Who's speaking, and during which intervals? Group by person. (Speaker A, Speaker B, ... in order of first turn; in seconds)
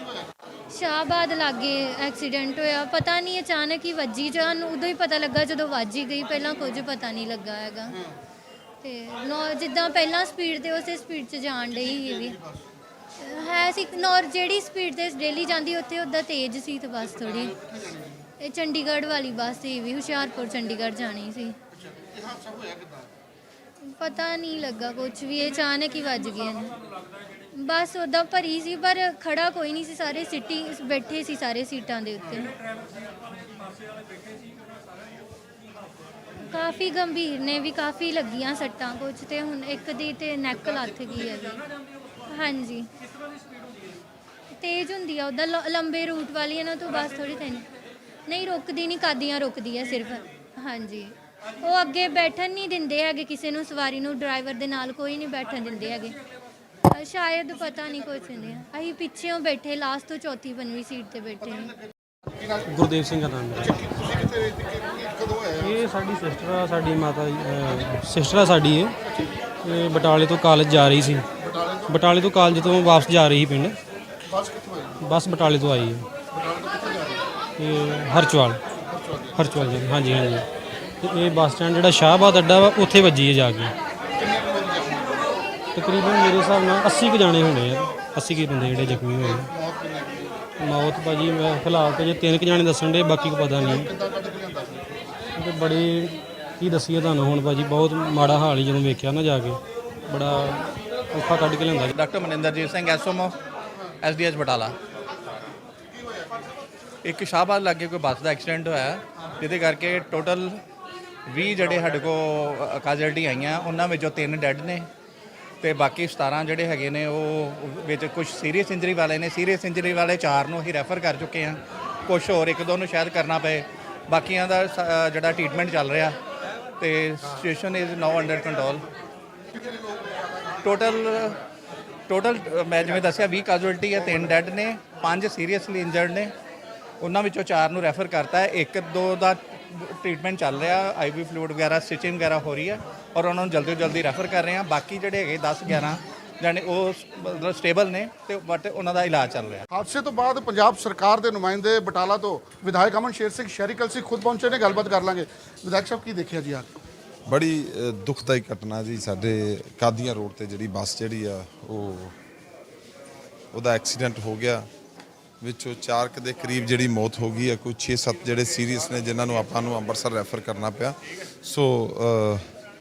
Speaker A: 0.7-8.0, 8.8-12.4, 13.2-17.6, 18.4-21.6, 23.8-26.8, 27.5-32.5, 36.4-41.6, 42.3-42.9, 44.5-47.7, 48.3-56.2, 56.9-61.7
Speaker B: 22.0-22.9, 64.4-65.4, 74.3-75.0, 76.3-77.3, 78.8-79.3, 84.1-85.3, 89.5-90.4, 93.6-95.2, 149.7-156.7
Speaker C: 62.5-64.1, 65.4-69.0, 69.6-71.3, 71.9-73.8, 75.0-76.1, 77.6-78.6, 79.3-80.5, 81.0-83.7, 85.7-89.5, 90.6-93.9, 95.3-101.9
Speaker D: 101.9-103.3, 104.0-104.8, 107.0-110.6, 111.2-114.9, 115.6-126.2, 126.8-128.9, 130.6-131.4, 132.1-136.3, 137.0-149.7
Speaker E: 157.3-162.1, 163.5-164.7, 165.4-172.5